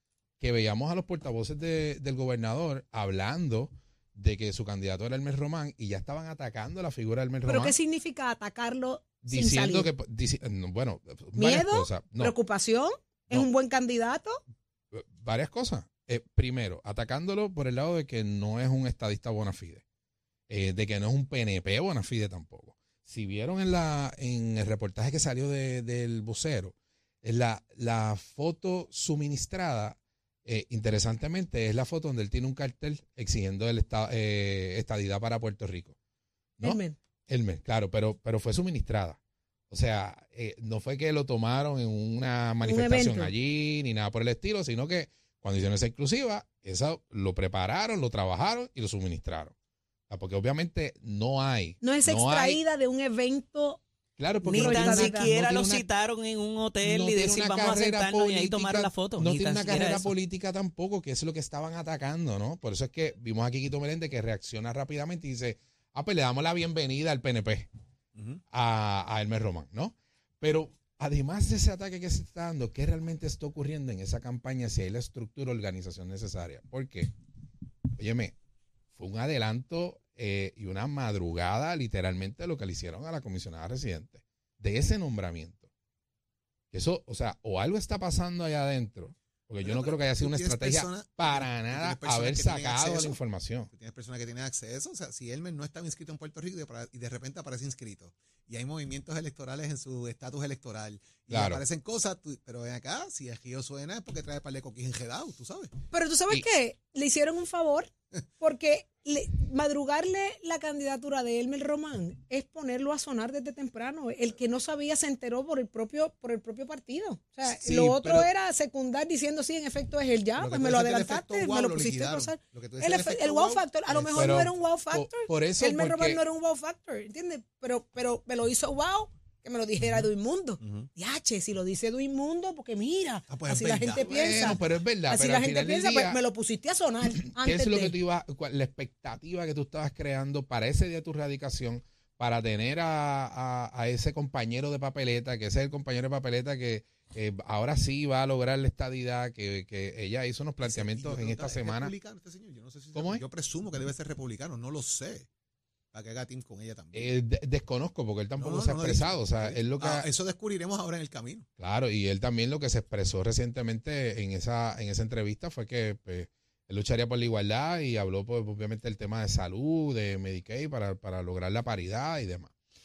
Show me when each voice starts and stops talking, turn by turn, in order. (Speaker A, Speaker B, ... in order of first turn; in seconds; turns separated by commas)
Speaker A: 0.4-7.8, Speaker B: 7.5-9.9, Speaker A: 9.2-12.3, Speaker B: 11.4-14.4, Speaker A: 14.9-19.8, Speaker A: 20.5-35.9, Speaker A: 36.6-49.5, Speaker B: 36.6-37.0, Speaker B: 42.6-43.3, Speaker A: 50.1-52.6, Speaker B: 51.8-53.8, Speaker A: 54.2-55.9, Speaker C: 54.5-60.1, Speaker B: 54.5-55.3, Speaker A: 56.8-67.7, Speaker D: 68.1-68.4, Speaker A: 68.5-77.1, Speaker A: 78.0-78.3, Speaker A: 78.9-85.7, Speaker A: 86.7-93.7, Speaker D: 89.6-93.2, Speaker D: 93.7-105.7, Speaker A: 101.3-101.6, Speaker B: 105.9-137.9, Speaker A: 117.5-118.3, Speaker D: 120.4-124.2, Speaker A: 124.1-126.2, Speaker D: 130.6-130.9, Speaker D: 133.3-134.6, Speaker A: 134.0-136.2, Speaker A: 137.1-151.9, Speaker D: 150.6-155.3, Speaker A: 152.9-153.2, Speaker D: 155.9-157.1, Speaker A: 156.9-160.1, Speaker D: 158.4-161.5, Speaker A: 161.6-172.5